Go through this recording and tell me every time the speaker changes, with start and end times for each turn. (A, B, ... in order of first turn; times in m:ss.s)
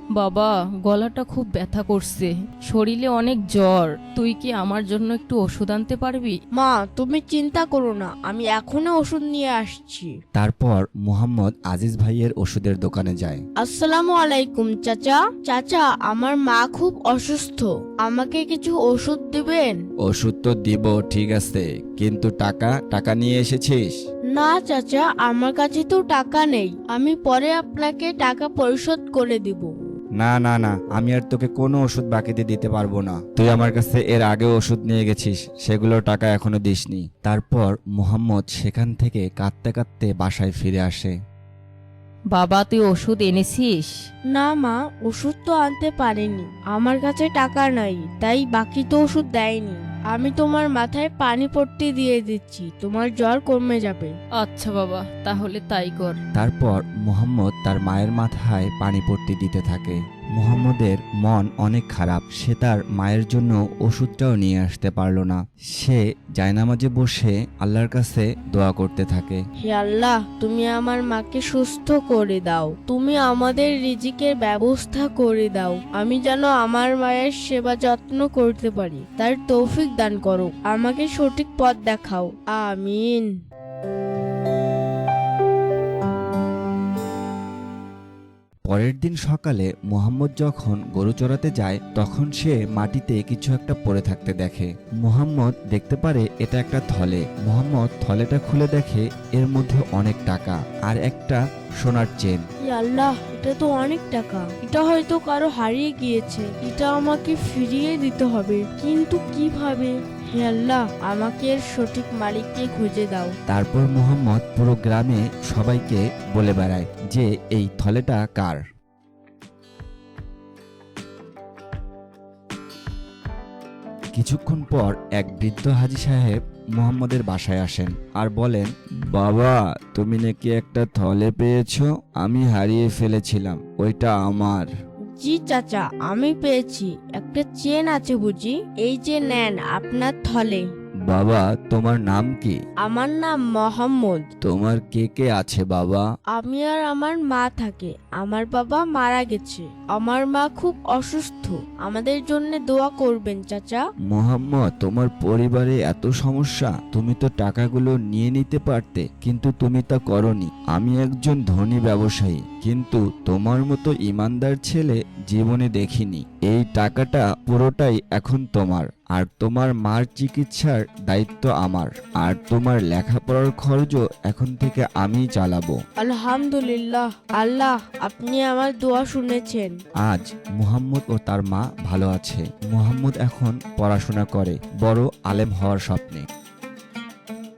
0:00.2-0:06.4 A
0:06.6-0:10.1 B
0:10.4-0:13.4 C
0:13.6-0:19.8 B
0:20.0-0:24.0 C
0:24.3-0:29.7 B
0:30.2-0:41.1 C
0:42.3-0:44.0 A
0:44.3-0:54.1 B
0:54.4-0:56.2 A
0:56.3-1:09.4 C
1:09.6-1:23.3 B
1:28.7-1:42.4 C
1:42.6-1:53.3 B
1:53.5-1:58.6 C
2:04.2-2:14.7 C
2:15.2-2:20.6 B
2:21.1-2:22.6 C
2:22.8-2:24.2 B
2:24.4-2:26.0 C
2:26.3-2:33.8 B
2:34.1-2:55.8 C
2:56.0-2:59.7 B
3:00.0-3:06.2 C